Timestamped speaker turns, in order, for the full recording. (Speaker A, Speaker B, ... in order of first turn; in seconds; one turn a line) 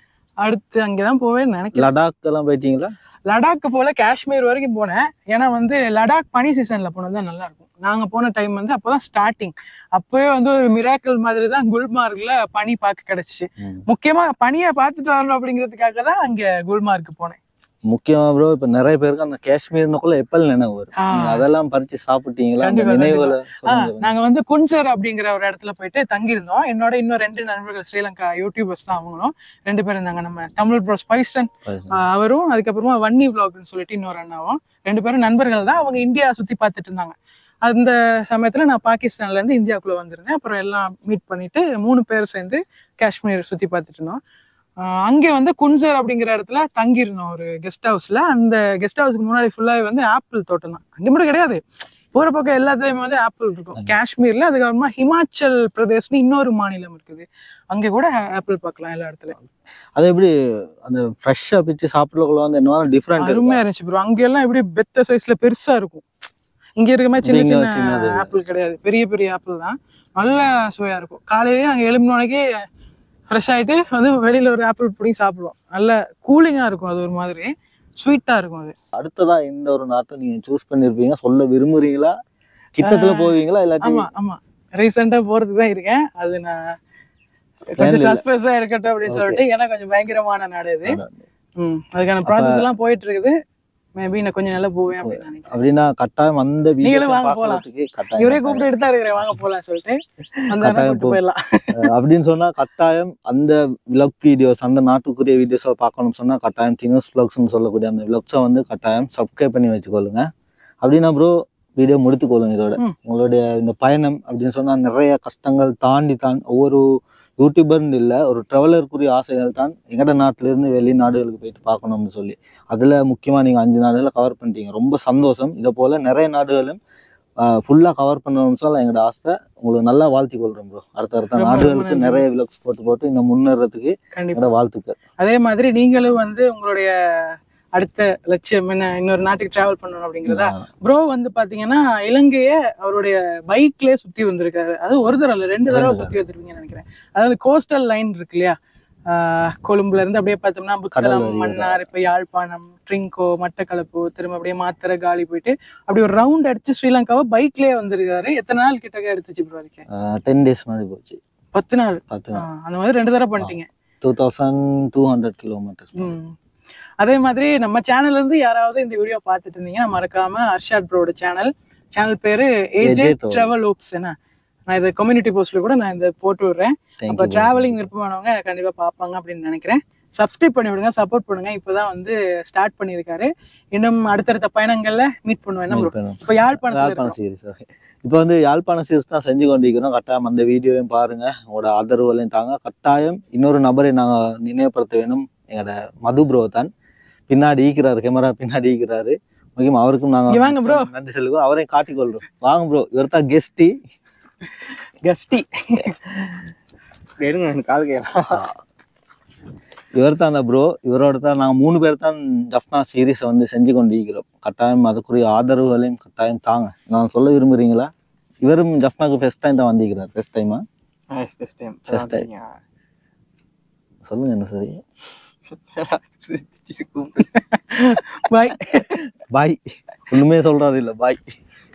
Speaker A: 0.4-1.9
Speaker B: 1.8-2.9
Speaker A: 3.3-17.4
Speaker B: 17.9-24.1
Speaker A: 21.0-21.5
Speaker A: 22.6-44.2
Speaker B: 31.6-32.0
Speaker A: 44.8-51.6
Speaker A: 52.1-59.4
Speaker B: 60.0-63.6
Speaker A: 63.2-66.0
Speaker A: 66.8-72.5
Speaker B: 67.2-68.3
Speaker A: 73.3-78.8
Speaker B: 78.9-82.1
Speaker B: 82.8-84.1
Speaker A: 82.8-86.8
Speaker A: 87.7-91.0
Speaker B: 87.8-88.2
Speaker B: 89.1-89.4
Speaker B: 90.9-91.2
Speaker A: 91.6-93.4
Speaker B: 92.2-92.6
Speaker A: 94.0-95.5
Speaker B: 95.0-98.7
Speaker A: 96.8-97.6
Speaker A: 98.2-101.9
Speaker B: 100.6-101.2
Speaker B: 101.7-110.3
Speaker B: 110.8-116.8
Speaker B: 117.4-126.8
Speaker B: 127.4-135.0
Speaker A: 131.4-132.2
Speaker A: 134.1-134.4
Speaker A: 135.2-148.6
Speaker B: 140.2-140.7
Speaker B: 145.7-146.1
Speaker A: 149.1-159.8
Speaker B: 150.9-151.9
Speaker B: 159.9-161.2
Speaker A: 161.5-163.7
Speaker B: 162.1-162.5
Speaker B: 163.4-166.2
Speaker A: 166.0-166.3
Speaker A: 167.0-174.2
Speaker B: 172.8-173.5
Speaker A: 174.7-187.2
Speaker B: 177.0-177.9
Speaker B: 185.7-196.7
Speaker B: 197.3-203.8
Speaker A: 200.3-200.9
Speaker A: 205.0-206.0
Speaker C: 207.2-208.4
Speaker B: 210.0-217.9
Speaker B: 218.4-220.6
Speaker C: 221.1-222.6
Speaker B: 221.9-222.3
Speaker B: 224.1-224.8
Speaker C: 225.7-227.3
Speaker A: 227.7-228.9
Speaker B: 229.3-231.4